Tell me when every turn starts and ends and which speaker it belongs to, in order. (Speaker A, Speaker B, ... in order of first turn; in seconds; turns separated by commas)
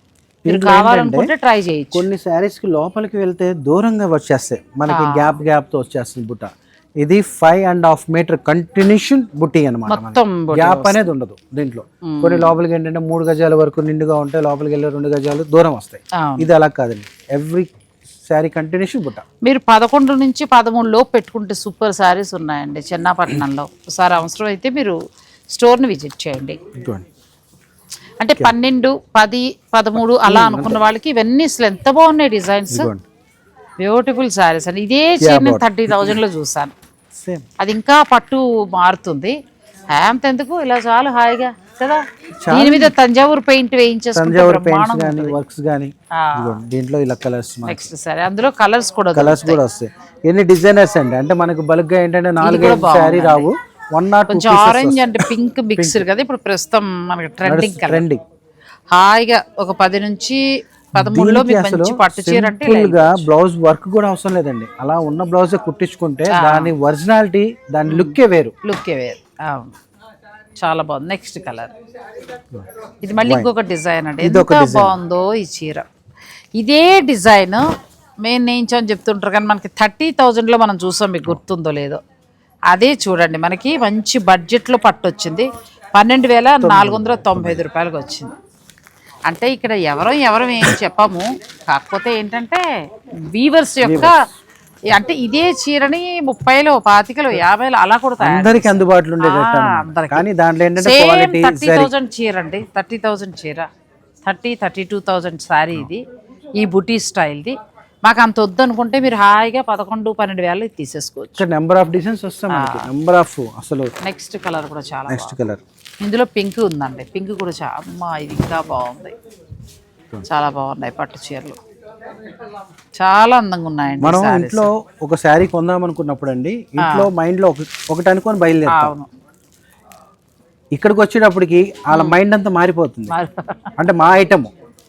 Speaker A: 0.5-1.3, Speaker B: 0.5-2.1, Speaker A: 1.9-17.7, Speaker B: 4.9-5.4, Speaker B: 9.9-11.1, Speaker B: 12.0-12.5, Speaker B: 16.2-16.5, Speaker A: 18.2-19.2, Speaker B: 19.4-25.0, Speaker B: 25.5-26.6, Speaker A: 26.8-27.1, Speaker B: 28.2-32.9, Speaker A: 30.2-30.8, Speaker A: 32.7-33.0, Speaker B: 33.8-36.7, Speaker A: 35.2-36.2, Speaker A: 37.1-37.5, Speaker B: 37.6-39.4, Speaker B: 39.9-45.4, Speaker A: 42.4-42.9, Speaker A: 44.1-47.9, Speaker B: 46.1-46.6, Speaker B: 47.6-49.6, Speaker A: 49.1-56.0, Speaker B: 52.4-53.5, Speaker B: 54.3-58.1, Speaker A: 57.5-58.2, Speaker B: 58.9-60.4, Speaker B: 61.0-63.3, Speaker A: 61.0-68.5, Speaker B: 66.3-66.7, Speaker B: 67.9-69.8, Speaker B: 70.6-71.7, Speaker B: 73.0-75.9, Speaker A: 73.2-73.5, Speaker A: 74.2-75.0, Speaker B: 76.6-77.6, Speaker B: 78.2-82.0, Speaker B: 82.7-88.3, Speaker A: 86.6-87.7, Speaker B: 89.3-92.7, Speaker B: 93.2-94.2, Speaker A: 93.8-94.1, Speaker B: 94.9-100.3, Speaker A: 98.2-101.9, Speaker B: 100.8-103.7, Speaker B: 104.2-106.0, Speaker B: 106.6-111.4, Speaker A: 111.4-113.9, Speaker B: 112.5-112.9, Speaker B: 114.0-115.4, Speaker A: 115.1-115.6, Speaker B: 116.0-119.1, Speaker B: 120.3-121.6, Speaker B: 123.0-124.7, Speaker A: 124.0-128.9, Speaker B: 126.8-127.1, Speaker B: 128.7-129.1, Speaker A: 130.8-133.1, Speaker B: 131.9-132.2, Speaker B: 133.1-133.7, Speaker A: 133.8-134.5